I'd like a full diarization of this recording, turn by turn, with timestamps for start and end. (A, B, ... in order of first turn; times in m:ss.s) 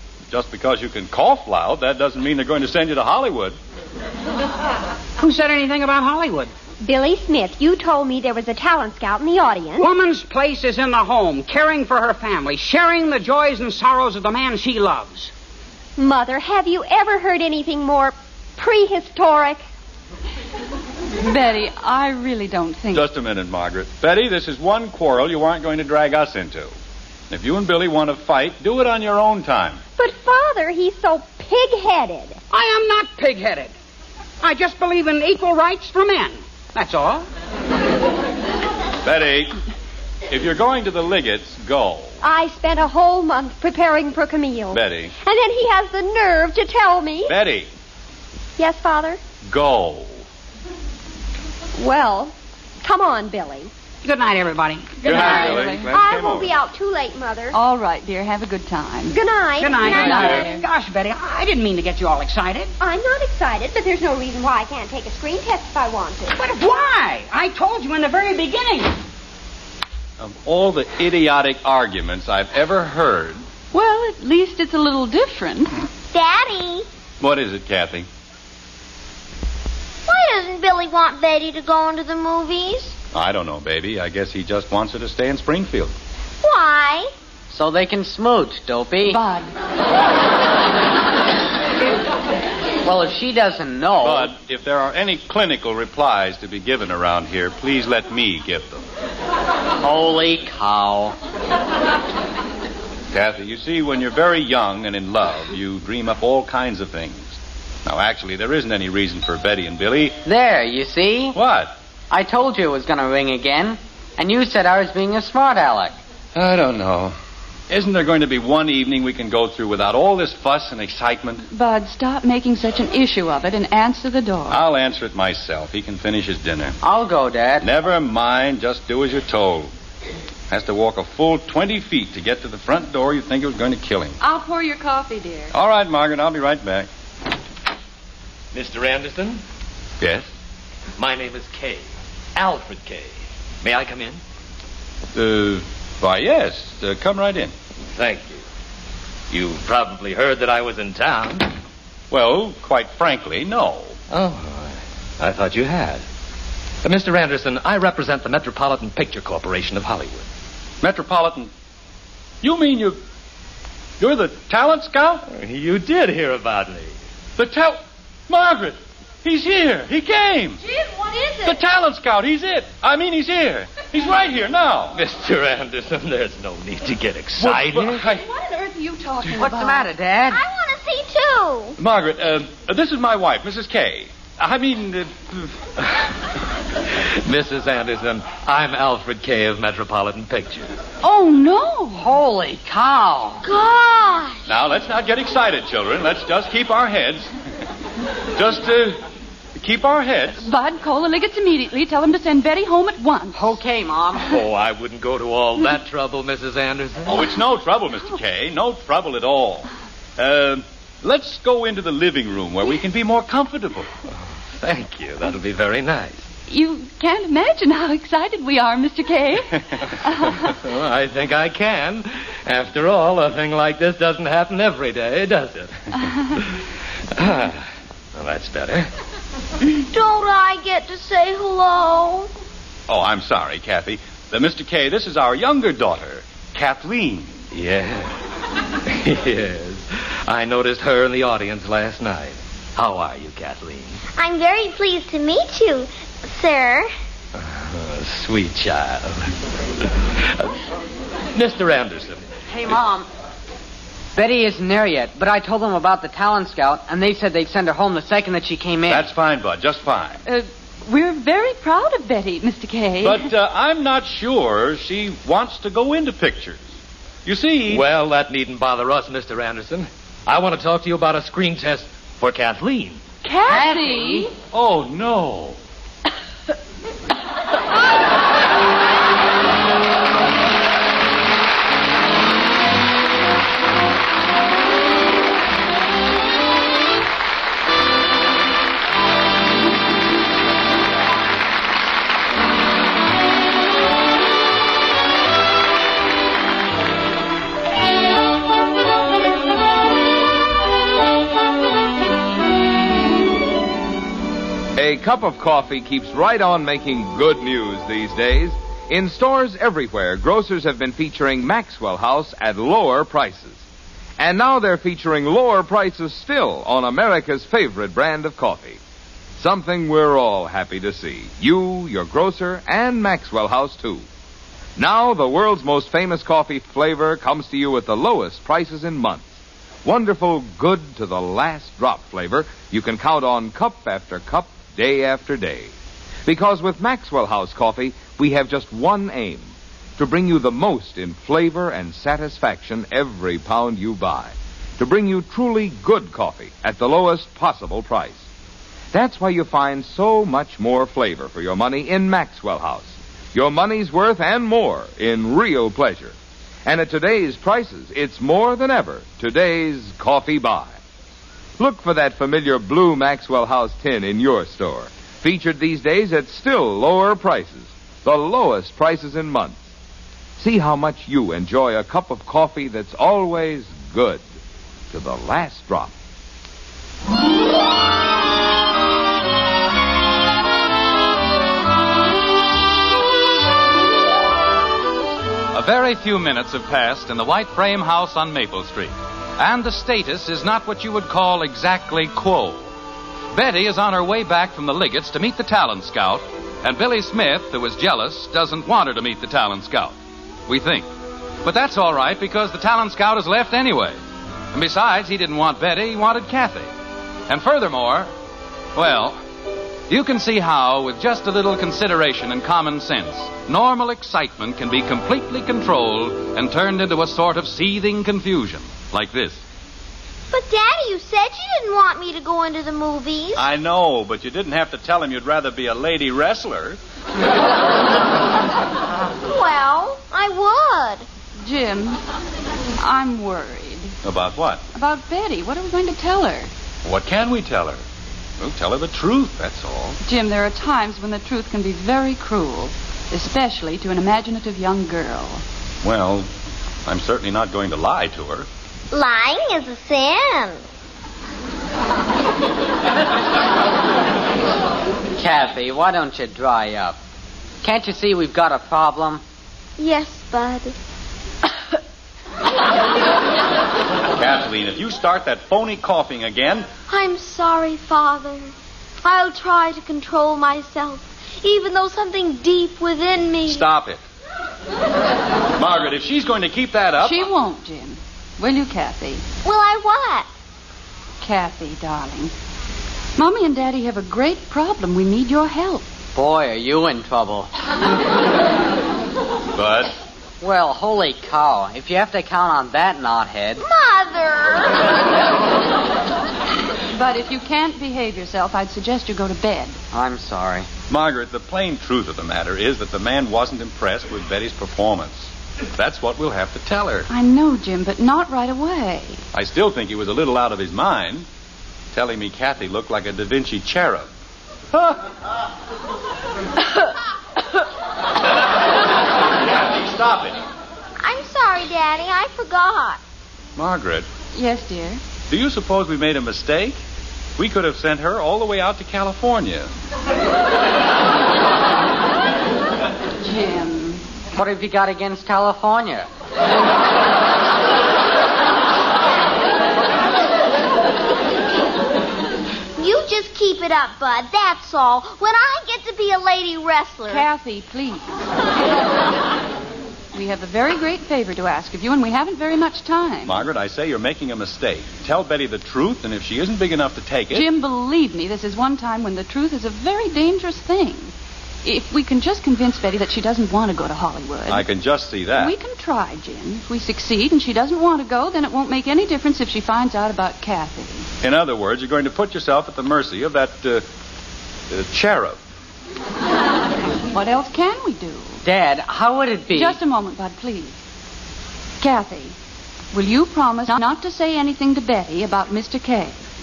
0:00.3-0:03.6 A
0:05.2-0:06.5 B
0:06.8-0:09.8 C
0:09.8-0:15.3 B
0:16.0-0:19.6 C
0:21.2-0:23.1 D
0:22.9-0:26.7 A
0:27.3-0:29.8 A
0:30.0-0:32.4 C
0:32.5-0:33.7 B
0:34.4-0:37.3 B
0:39.0-0:39.5 A
0:40.3-0:42.2 A
0:42.2-0:47.3 C
0:44.7-0:45.1 A
0:47.3-0:47.7 A
0:48.6-0:49.2 C
0:49.4-0:50.2 A
0:51.8-0:53.7 C
0:54.0-0:55.7 B
0:55.0-0:55.9 D
0:55.0-0:56.5 A
0:55.8-0:57.6 C
0:57.5-0:59.2 D
0:59.1-1:00.5 C
0:59.6-1:02.7 B
0:59.8-1:00.6 D
1:02.8-1:06.4 C
1:06.3-1:09.0 B
1:10.2-1:13.4 A
1:13.7-1:15.8 D
1:16.1-1:16.8 E
1:17.2-1:18.1 A
1:20.1-1:22.9 E
1:23.1-1:25.9 A
1:26.4-1:27.1 E
1:27.5-1:29.2 F
1:29.0-1:29.5 D
1:32.8-1:34.3 F
1:34.0-1:38.8 A
1:39.8-1:41.2 F
1:43.1-1:50.2 A
1:50.2-1:51.4 F
1:51.3-1:51.8 A
1:52.1-1:56.0 F
1:56.3-1:57.2 A
1:57.7-2:01.4 A
2:01.5-2:04.6 D
2:04.5-2:06.8 A
2:06.8-2:07.6 F
2:07.6-2:09.7 A
2:10.5-2:14.2 A
2:14.2-2:15.5 D
2:15.5-2:16.9 A
2:18.5-2:19.4 G
2:21.0-2:21.8 G
2:22.4-2:24.2 G
2:25.1-2:27.5 A
2:27.9-2:28.4 G
2:29.3-2:31.5 G
2:32.1-2:34.0 A
2:34.1-2:36.0 G
2:36.8-2:40.2 G
2:40.8-2:41.5 A
2:42.4-2:43.0 A
2:44.0-2:45.2 A
2:45.3-2:46.9 G
2:47.4-2:50.6 A
2:50.6-2:51.6 D
2:51.4-2:55.0 A
2:54.9-2:58.0 G
2:57.4-2:58.2 A
2:58.0-2:59.9 D
2:59.3-3:00.4 F
3:00.3-3:01.8 E
3:01.8-3:05.5 A
3:07.2-3:10.7 G
3:11.0-3:12.1 D
3:11.9-3:13.4 F
3:13.4-3:14.4 E
3:14.5-3:17.3 A
3:18.4-3:19.0 A
3:19.6-3:20.4 A
3:20.4-3:23.5 D
3:23.3-3:24.3 F
3:24.3-3:27.2 G
3:27.0-3:33.9 A
3:34.6-3:36.2 G
3:36.5-3:40.4 D
3:40.6-3:45.7 G
3:47.2-3:47.6 G
3:48.2-3:48.9 G
3:49.9-3:52.3 E
3:52.9-3:57.3 A
3:57.5-3:58.2 G
3:58.9-4:04.0 G
4:04.2-4:06.9 E
4:07.4-4:09.3 G
4:11.3-4:12.2 G
4:12.5-4:13.1 F
4:14.2-4:19.1 F
4:18.8-4:20.2 A
4:20.2-4:23.3 D
4:23.0-4:26.6 A
4:27.2-4:27.8 A
4:27.7-4:33.0 G
4:33.2-4:34.3 D
4:33.4-4:34.3 F
4:34.5-4:35.6 A
5:04.8-5:13.6 H
5:14.2-5:18.8 H
5:19.4-5:24.0 H
5:24.8-5:35.7 H
5:36.2-5:48.2 H
5:48.9-6:00.8 H
6:01.6-6:09.6 H
6:10.4-6:14.2 H
6:14.9-6:15.9 H
6:25.5-6:32.7 I
6:33.3-6:39.9 I
6:40.5-6:40.9 I
6:41.4-6:44.0 I
6:44.5-6:46.7 I
6:47.3-6:48.1 I
6:48.7-6:49.2 I
6:49.9-6:59.4 I
7:00.3-7:03.5 E
7:03.4-7:06.8 A
7:09.3-7:11.0 E
7:11.4-7:12.0 D
7:12.8-7:13.9 D
7:14.0-7:14.6 A
7:14.7-7:16.5 D
7:16.8-7:17.8 A
7:18.4-7:20.0 A
7:20.0-7:25.4 D
7:25.8-7:26.3 A
7:26.8-7:28.5 A
7:28.9-7:30.6 E
7:35.2-7:37.0 F
7:37.6-7:39.2 F
7:39.8-7:40.7 E
7:44.1-7:46.7 A
7:46.9-7:53.6 E
7:53.5-7:54.0 A
7:55.6-7:57.3 A
7:57.0-7:59.2 D
7:59.4-8:00.3 E
8:01.2-8:02.3 D
8:03.2-8:05.8 D
8:06.1-8:07.5 F
8:09.5-8:09.9 A
8:10.4-8:13.6 F
8:13.6-8:14.9 E
8:16.9-8:19.8 D
8:19.9-8:20.7 F
8:20.9-8:27.1 A
8:27.1-8:29.2 D
8:29.3-8:31.2 A
8:31.9-8:34.1 A
8:34.7-8:35.0 A
8:39.4-8:40.4 A
8:41.0-8:43.0 E
8:43.6-8:44.1 A
8:44.3-8:45.0 D
8:45.3-8:46.8 A
8:47.4-8:49.7 A
8:53.2-8:54.0 D
8:54.4-8:56.1 F
9:02.8-9:07.2 E
9:07.1-9:08.2 D
9:10.1-9:13.4 D
9:13.2-9:17.4 A
9:17.3-9:21.1 D
9:21.6-9:24.7 D
9:24.5-9:25.5 A
9:25.3-9:31.1 D
9:31.2-9:33.8 A
9:34.7-9:35.4 A
9:37.1-9:38.4 D
9:38.4-9:39.8 F
9:39.5-9:40.7 D
9:41.8-9:42.3 D
9:42.9-9:46.2 D